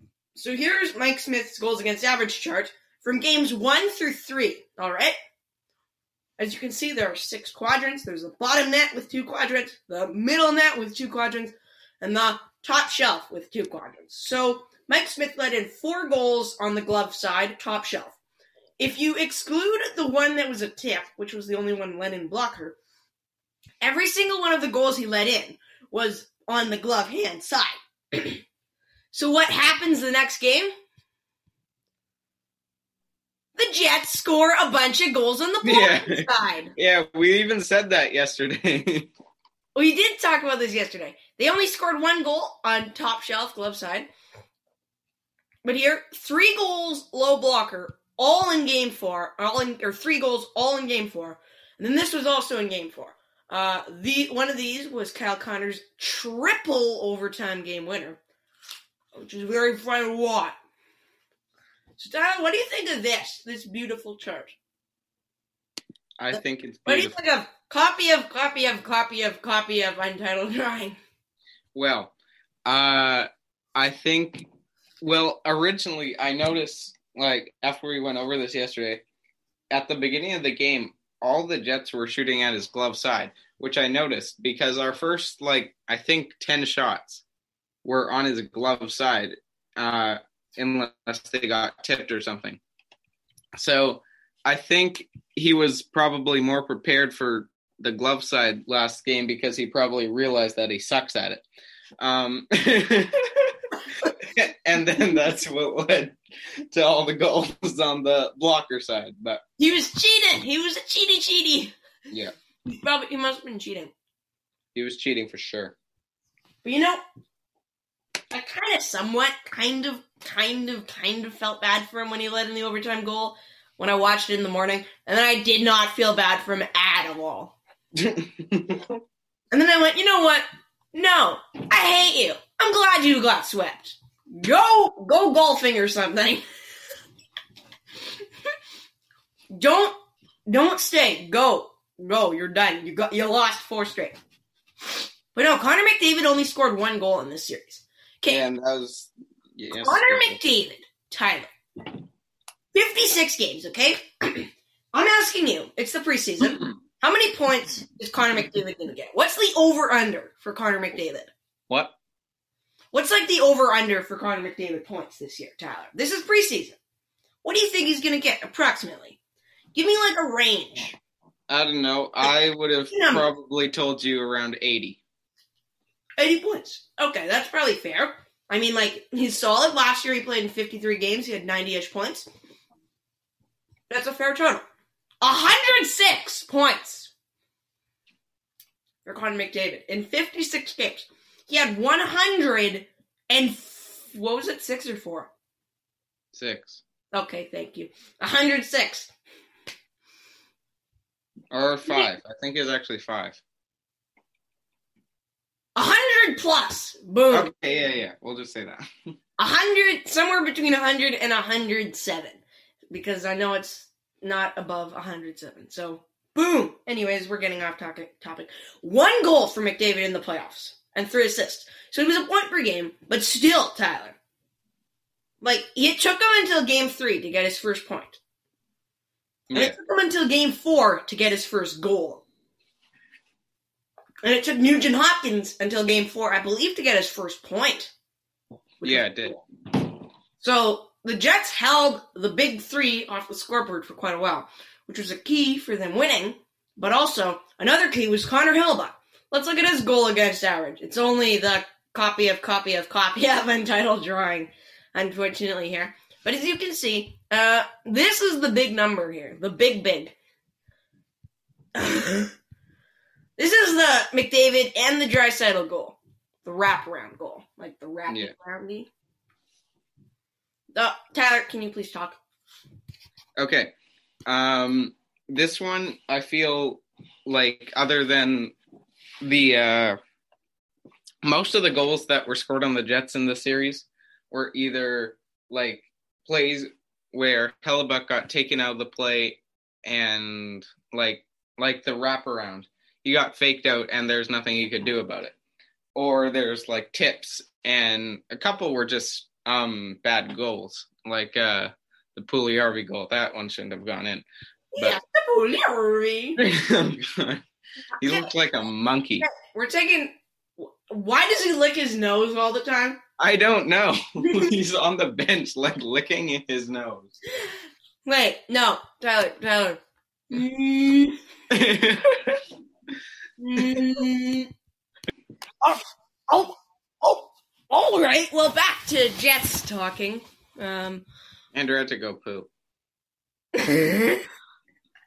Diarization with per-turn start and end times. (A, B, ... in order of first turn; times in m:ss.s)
0:00.3-0:05.1 A
0:06.4-0:18.2 A
0:18.8-0:22.8 A
0:23.8-0:28.4 A
0:29.1-0:30.7 A
0:33.6-0:36.7 A
0:35.6-0:39.1 B
0:39.7-0:44.1 A
0:45.6-0:58.2 A
0:59.1-1:00.6 A
1:02.0-1:04.6 A
1:06.2-1:07.2 B
1:06.3-1:11.0 A
1:11.7-1:12.1 B
1:12.6-1:14.5 B
1:15.0-1:19.0 B
1:19.7-1:27.2 B
1:27.8-1:32.6 B
1:33.5-1:41.4 B
1:42.0-1:46.2 B
1:46.7-1:49.4 B
1:49.6-1:51.7 A
1:52.6-1:53.9 A
1:54.7-1:55.7 B
1:56.6-1:57.0 A
1:58.3-2:07.6 A
2:08.0-2:08.8 B
2:09.5-2:16.4 A
2:19.6-2:19.9 A
2:20.5-2:24.2 A
2:25.3-2:28.4 A
2:28.3-2:30.4 B
2:29.8-2:31.5 A
2:32.7-2:41.3 A
2:36.4-2:36.7 B
2:41.7-2:41.9 B
2:42.9-2:46.8 A
2:47.4-2:49.2 A
2:49.7-2:51.0 A
2:51.5-2:55.0 B
2:52.9-2:53.3 A
2:56.2-3:02.3 A
3:03.9-3:04.6 A
3:05.2-3:07.1 A
3:09.0-3:15.3 A
3:16.3-3:16.8 B
3:17.1-3:19.1 A
3:21.5-3:23.4 B
3:25.8-3:27.5 A
3:27.3-3:28.8 B
3:29.4-3:44.2 A
3:45.4-3:48.2 A
3:49.5-3:49.8 B
3:49.5-3:52.2 A
3:54.2-3:57.9 A
3:58.8-3:59.2 A
3:58.8-3:59.4 B
4:00.4-4:20.2 A
4:21.8-4:22.3 A
4:23.4-4:28.9 A
4:30.7-4:32.2 A
4:33.4-4:33.7 B
4:34.3-4:38.5 B
4:39.2-4:40.0 B
4:41.2-4:55.3 B
4:55.9-5:04.2 B
5:04.7-5:06.4 A
5:06.4-5:07.4 B
5:08.0-5:09.3 B
5:08.0-5:08.3 A
5:09.2-5:13.0 A
5:13.2-5:17.2 B
5:14.2-5:14.5 A
5:18.0-5:19.8 A
5:20.3-5:21.2 A
5:21.5-5:22.4 B
5:23.4-5:24.5 A
5:25.6-5:31.0 A
5:31.5-5:32.5 B
5:33.6-5:34.2 A